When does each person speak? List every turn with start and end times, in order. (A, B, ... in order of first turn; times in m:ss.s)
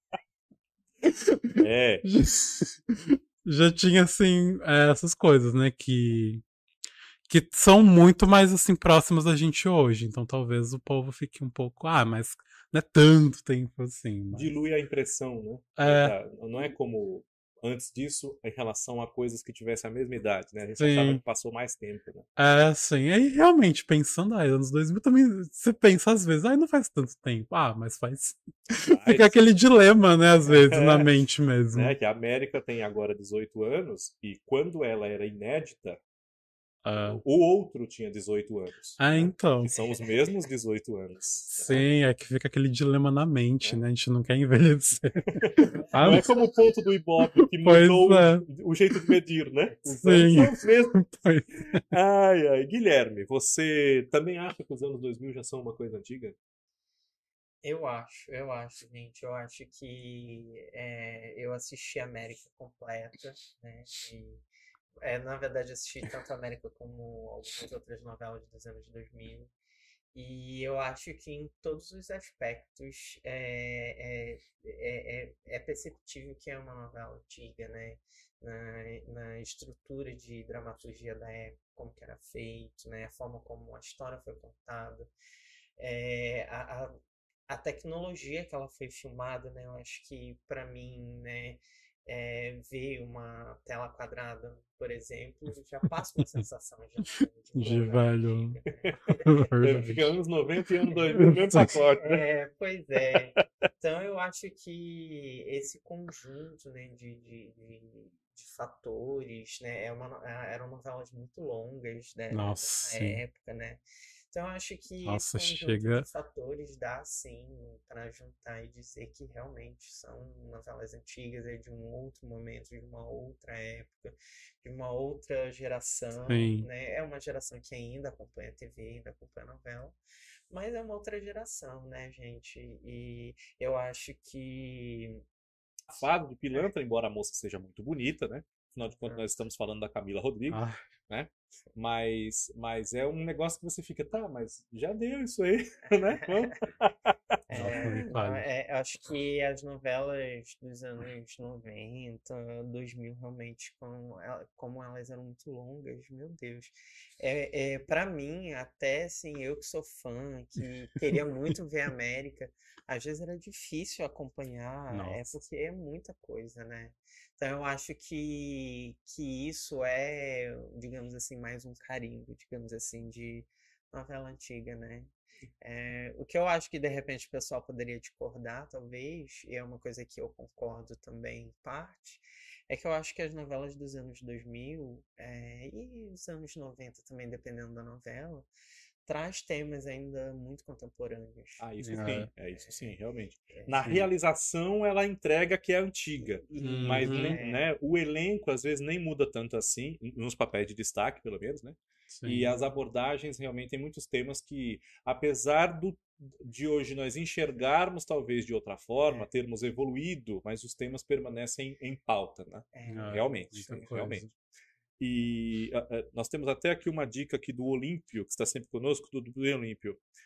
0:01.0-0:06.4 A
0:01.6-0:02.0 B
0:07.3-0:14.5 A
0:14.3-0:22.3 B
0:15.8-0:16.2 A
0:20.8-0:21.2 A
0:22.4-0:31.9 A
0:28.9-0:29.4 B
0:30.4-0:31.1 B
0:31.7-0:36.0 B
0:36.8-0:37.2 A
0:37.0-0:41.8 B
0:39.0-0:39.7 A
0:41.5-0:46.3 A
0:45.4-0:51.0 B
0:47.3-0:48.5 A
0:49.9-0:51.8 A
0:51.7-0:56.4 B
0:57.6-1:04.4 C
1:05.0-1:09.5 C
1:10.1-1:25.1 C
1:25.8-1:27.0 C
1:27.5-1:39.2 C
1:37.5-1:38.6 A
1:38.9-1:42.2 B
1:39.1-1:40.1 A
1:41.1-1:41.8 A
1:42.0-2:10.0 C
1:52.3-1:53.2 A
1:55.0-1:56.0 A
2:06.3-2:06.7 A
2:10.5-2:15.2 C
2:15.9-2:27.8 B
2:20.5-2:20.8 A
2:26.2-2:26.5 C
2:27.5-3:08.5 C
2:27.5-2:28.4 A
2:44.9-2:45.3 A
3:09.0-3:11.7 C
3:11.6-3:34.2 B
3:11.8-3:12.3 A
3:12.5-3:13.0 C
3:13.5-3:13.8 C
3:16.5-3:17.7 C
3:16.6-3:17.4 A
3:22.1-3:22.5 A
3:32.7-3:33.4 C
3:32.9-3:34.3 A
3:35.0-3:40.0 B